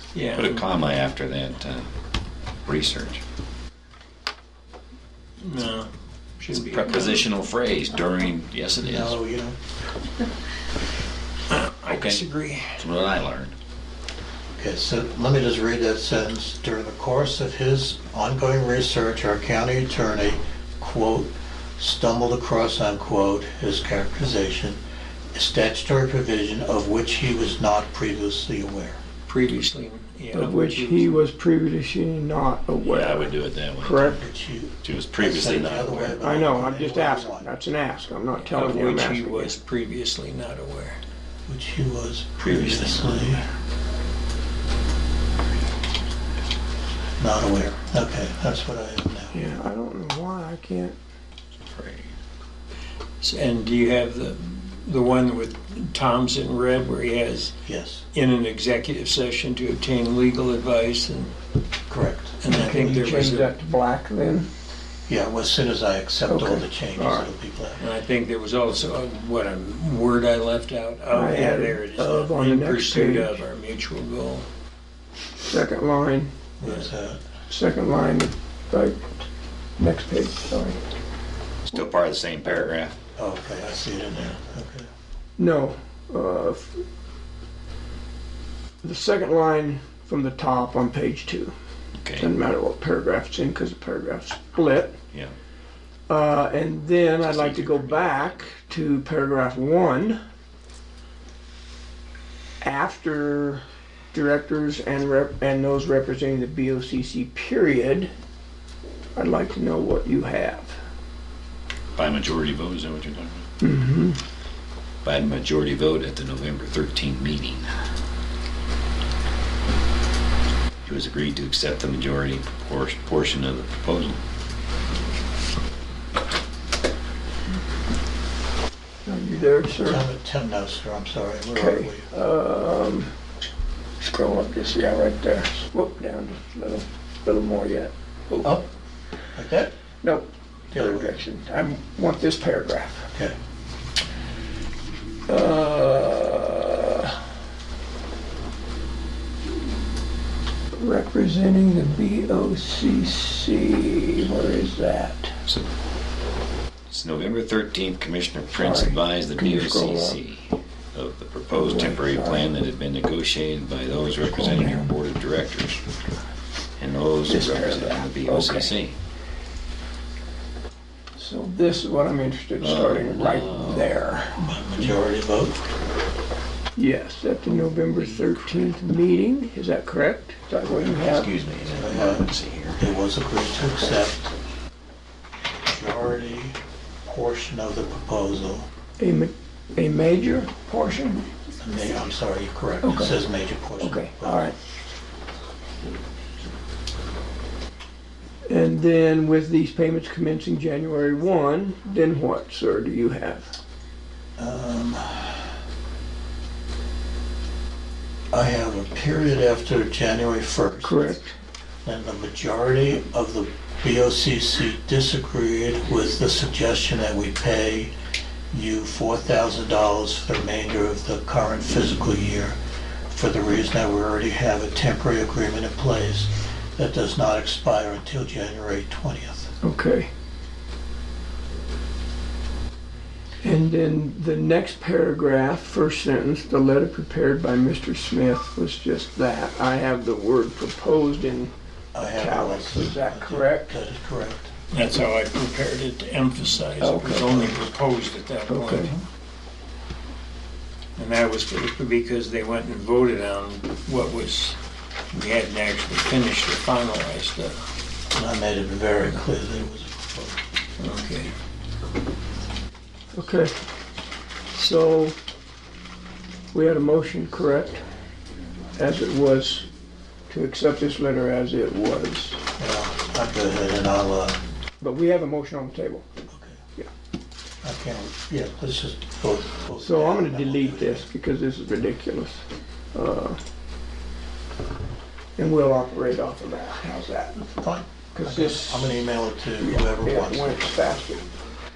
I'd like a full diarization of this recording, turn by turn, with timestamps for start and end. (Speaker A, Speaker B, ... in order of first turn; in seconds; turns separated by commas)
Speaker A: 0.1-0.7, Speaker B: 0.3-1.9, Speaker B: 2.6-3.2, Speaker A: 5.4-7.3, Speaker B: 6.5-9.2, Speaker C: 8.8-9.6, Speaker A: 11.5-12.9, Speaker B: 11.9-12.2, Speaker B: 12.8-13.5, Speaker C: 14.6-24.8, Speaker C: 25.3-29.0, Speaker A: 29.3-31.2, Speaker D: 30.3-34.2, Speaker B: 32.8-34.1, Speaker C: 34.1-37.5, Speaker B: 34.8-36.2, Speaker D: 36.2-39.5, Speaker A: 38.3-41.0, Speaker C: 41.5-43.4, Speaker A: 42.4-43.4, Speaker C: 47.2-49.3, Speaker D: 49.3-51.0, Speaker B: 51.7-52.1, Speaker A: 53.2-57.5, Speaker C: 57.6-58.0, Speaker A: 58.1-61.3, Speaker C: 61.9-63.2, Speaker A: 62.4-63.5, Speaker D: 62.5-64.5, Speaker C: 65.1-67.8, Speaker D: 66.2-67.3, Speaker A: 67.8-74.5, Speaker D: 71.1-73.4, Speaker D: 75.4-76.3, Speaker C: 76.6-77.2, Speaker D: 77.5-79.2, Speaker D: 79.8-80.8, Speaker B: 81.7-83.0, Speaker C: 83.1-84.8, Speaker D: 85.4-86.8, Speaker D: 88.8-91.5, Speaker B: 92.0-92.3, Speaker D: 92.2-95.0, Speaker D: 96.1-100.2, Speaker D: 102.6-108.1, Speaker D: 109.1-110.8, Speaker B: 111.9-113.5, Speaker D: 113.6-114.2, Speaker B: 115.0-117.7, Speaker B: 120.8-124.2, Speaker D: 129.1-130.1, Speaker C: 129.8-132.1, Speaker D: 131.5-133.1, Speaker D: 134.0-138.5, Speaker C: 138.4-138.7, Speaker C: 139.3-139.7, Speaker D: 140.0-143.1, Speaker C: 140.7-141.2, Speaker D: 145.3-147.1, Speaker D: 150.8-155.3, Speaker B: 156.9-165.8, Speaker D: 158.5-160.2, Speaker D: 161.5-162.5, Speaker D: 164.4-164.9, Speaker B: 166.8-168.9, Speaker D: 167.2-168.7, Speaker D: 171.1-174.7, Speaker B: 172.6-174.0, Speaker C: 174.4-175.6, Speaker D: 176.8-181.3, Speaker B: 181.1-182.9, Speaker C: 181.7-184.3, Speaker C: 185.6-188.7, Speaker D: 189.0-191.3, Speaker C: 191.6-194.5, Speaker D: 192.8-193.2, Speaker D: 193.8-194.5, Speaker D: 198.4-203.6, Speaker C: 204.4-205.5, Speaker C: 208.3-211.1, Speaker D: 210.8-211.3, Speaker C: 211.8-217.9, Speaker C: 218.5-222.5, Speaker C: 223.1-229.5, Speaker D: 229.6-230.1, Speaker D: 233.4-241.5, Speaker C: 241.9-244.5, Speaker D: 242.0-243.7, Speaker A: 244.7-249.0, Speaker D: 246.8-247.5, Speaker D: 248.5-248.9, Speaker A: 250.9-254.6, Speaker A: 255.1-257.6, Speaker C: 258.1-260.4, Speaker A: 260.8-261.3, Speaker D: 263.1-263.5, Speaker D: 264.5-265.1, Speaker D: 266.5-267.8, Speaker D: 268.8-269.6, Speaker D: 270.3-272.4, Speaker C: 272.6-274.4, Speaker D: 274.8-276.1, Speaker C: 276.3-276.6, Speaker C: 277.6-281.1, Speaker D: 279.8-283.4, Speaker D: 285.4-287.5, Speaker C: 287.5-290.6, Speaker D: 288.1-291.3